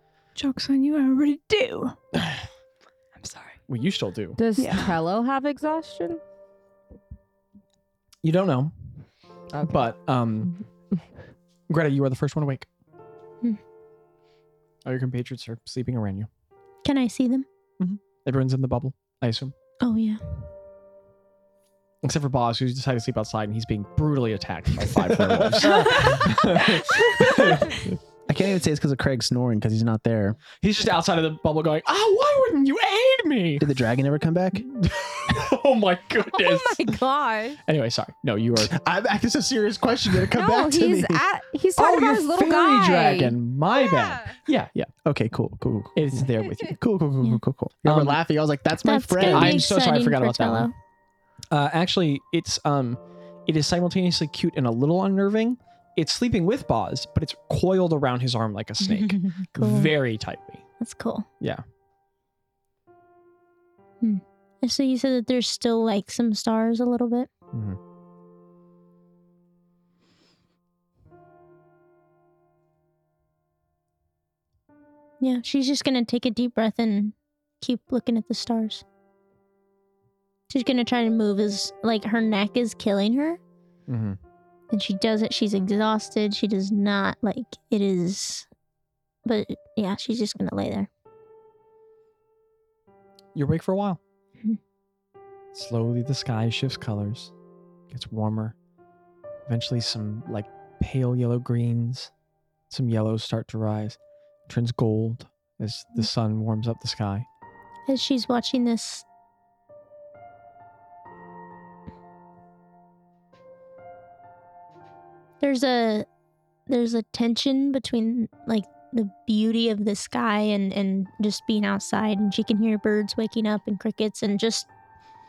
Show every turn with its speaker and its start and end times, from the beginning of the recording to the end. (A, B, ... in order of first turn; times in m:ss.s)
0:00.4-0:02.0 A
0:02.1-0:02.4 B
0:03.2-0:03.6 A
0:03.7-0:04.4 B
0:04.4-0:06.2 C
0:04.6-0:04.9 A
0:08.2-0:08.7 B
0:09.5-0:09.9 C
0:09.6-0:10.5 B
0:11.7-0:12.7 B
0:14.8-0:16.3 B
0:16.8-0:17.4 D
0:17.8-0:19.5 B
0:19.8-0:20.2 D
0:22.0-0:28.0 B
0:24.9-0:26.2 E
0:28.3-0:30.4 E
0:30.6-0:33.7 B
0:33.6-0:34.6 E
0:34.6-0:37.0 B
0:36.3-0:37.6 C
0:37.6-0:38.7 B
0:38.6-0:41.2 E
0:40.3-0:43.4 C
0:41.8-0:44.9 B
0:43.9-0:44.3 C
0:45.0-0:49.7 E
0:45.9-0:46.8 B
0:47.8-0:48.2 B
0:48.8-0:50.7 D
0:49.2-0:50.7 B
0:51.5-1:00.6 B
0:58.8-0:59.9 D
1:00.8-1:01.2 D
1:04.0-1:07.3 D
1:07.5-1:07.8 B
1:15.2-1:18.8 D
1:20.5-1:23.4 D
1:23.9-1:24.2 B
1:24.7-1:28.5 D
1:29.2-1:30.9 D
1:33.3-1:34.0 B
1:35.5-1:37.3 B
1:37.9-1:38.5 B
1:39.5-1:42.1 B
1:42.7-1:47.3 B
1:47.9-1:49.0 D
1:55.4-1:56.1 D
1:56.7-2:04.7 D